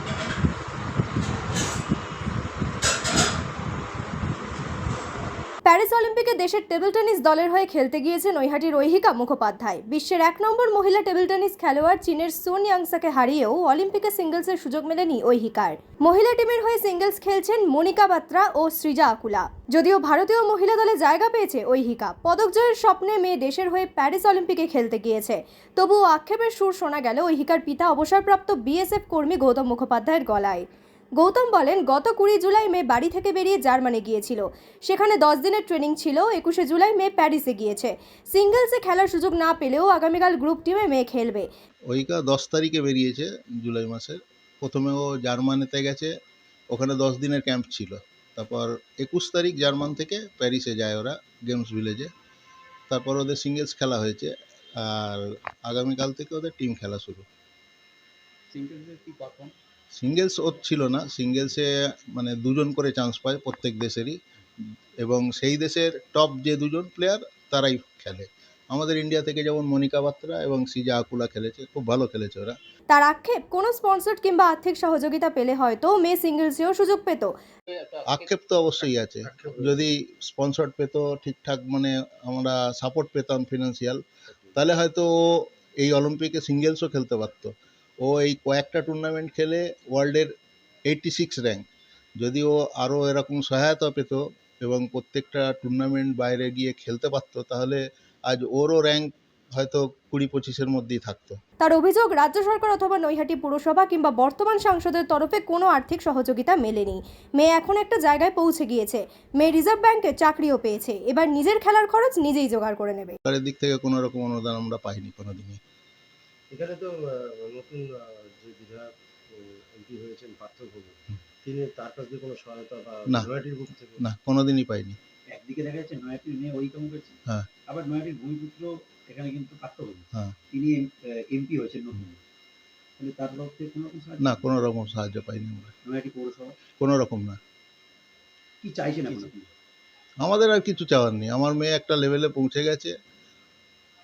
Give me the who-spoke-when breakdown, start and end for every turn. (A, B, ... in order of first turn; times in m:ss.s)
0:05.6-0:30.6 A
0:31.2-0:41.5 A
0:41.9-0:46.1 B
0:46.7-0:52.1 B
0:52.9-0:57.3 B
0:58.5-0:59.5 C
0:59.9-1:04.2 B
1:05.0-1:12.6 B
1:12.9-1:17.4 A
1:17.7-1:18.2 C
1:18.0-1:24.0 B
1:19.3-1:19.8 D
1:24.5-1:30.3 B
1:30.9-1:31.6 B
1:32.2-1:41.4 B
1:41.6-1:53.2 A
1:53.2-1:55.6 B
1:56.5-2:04.0 D
2:04.0-2:05.0 B
2:05.3-2:12.2 C
2:13.0-2:14.4 C
2:14.2-2:15.7 B
2:15.8-2:16.6 C
2:16.8-2:17.4 B
2:18.6-2:19.5 C
2:20.2-2:22.9 B